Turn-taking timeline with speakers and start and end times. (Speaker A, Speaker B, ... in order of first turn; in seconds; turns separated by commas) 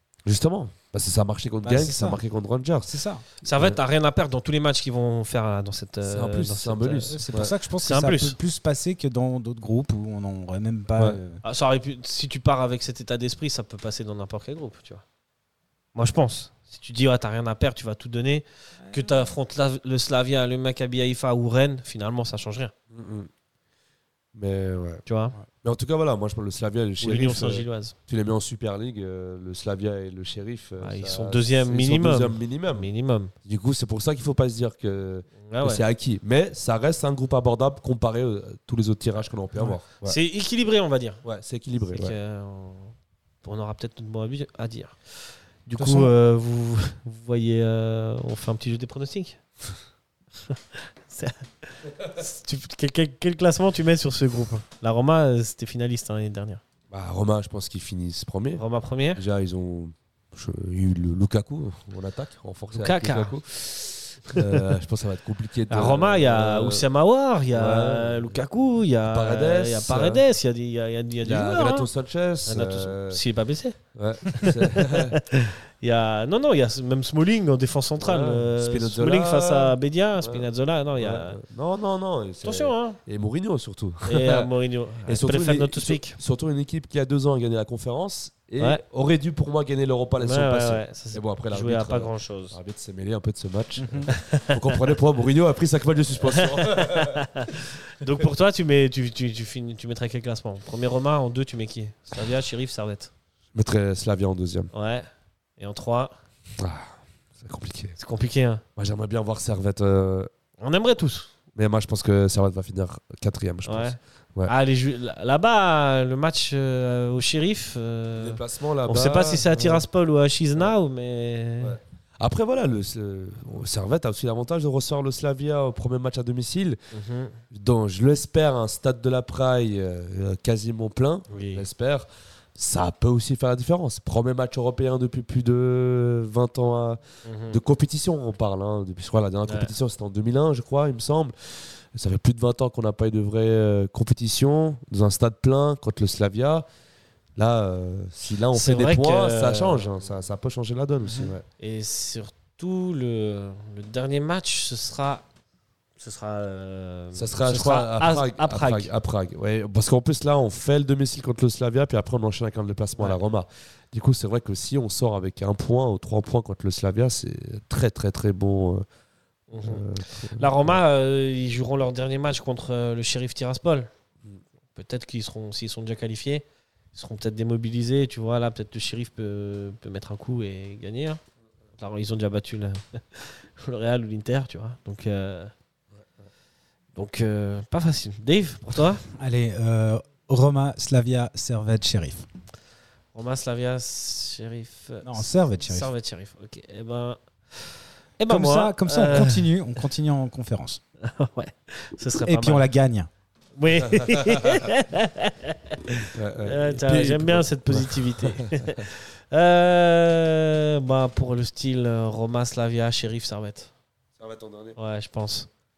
Speaker A: 0.2-3.8, Speaker B: 1.6-2.2, Speaker B: 2.9-3.3, Speaker C: 3.4-8.4, Speaker A: 6.0-7.5, Speaker B: 7.1-11.4, Speaker C: 11.4-15.0, Speaker C: 15.9-22.7, Speaker B: 18.9-19.3, Speaker A: 22.9-23.3, Speaker A: 24.4-25.0, Speaker C: 25.1-25.4, Speaker A: 25.6-32.9, Speaker C: 27.0-27.9, Speaker C: 30.8-33.3, Speaker A: 33.4-40.2, Speaker C: 35.5-35.8, Speaker C: 40.0-41.2, Speaker A: 41.2-42.2, Speaker C: 41.9-45.0, Speaker C: 45.7-49.4, Speaker A: 45.8-46.1, Speaker C: 50.5-56.6, Speaker A: 56.9-58.6, Speaker C: 58.5-59.2, Speaker A: 59.1-66.9, Speaker C: 62.7-63.4, Speaker C: 65.7-71.9, Speaker A: 67.5-68.4, Speaker A: 69.0-70.2, Speaker A: 71.2-73.2, Speaker C: 72.5-73.8, Speaker A: 73.9-75.2, Speaker C: 74.3-81.4, Speaker A: 78.0-84.5, Speaker C: 82.4-83.0, Speaker C: 84.1-86.2, Speaker A: 85.0-97.4, Speaker C: 90.2-92.6, Speaker B: 93.8-94.1, Speaker C: 94.1-94.8, Speaker C: 96.2-103.1, Speaker A: 103.5-104.7, Speaker C: 104.7-106.2, Speaker A: 106.6-108.0, Speaker C: 108.0-108.6, Speaker A: 108.8-110.3, Speaker C: 110.6-111.3, Speaker A: 111.5-114.5, Speaker C: 113.7-121.8, Speaker A: 118.2-119.8, Speaker A: 121.6-126.8, Speaker C: 126.9-127.4, Speaker A: 127.5-146.7, Speaker C: 131.3-131.7, Speaker C: 137.2-137.6, Speaker C: 139.4-139.7, Speaker A: 147.4-151.4, Speaker C: 148.5-149.9, Speaker C: 151.6-155.2, Speaker C: 156.0-158.9, Speaker A: 157.2-168.8, Speaker C: 169.5-173.9, Speaker A: 169.5-170.8, Speaker C: 174.7-181.2, Speaker C: 181.8-185.5, Speaker C: 186.9-189.0, Speaker B: 189.2-192.3, Speaker C: 193.1-199.5, Speaker B: 195.0-195.9, Speaker B: 198.3-200.8, Speaker C: 201.0-202.7, Speaker B: 202.2-203.1, Speaker C: 203.6-213.7, Speaker A: 203.8-204.7, Speaker A: 206.1-208.9, Speaker A: 214.2-214.8, Speaker C: 214.8-215.5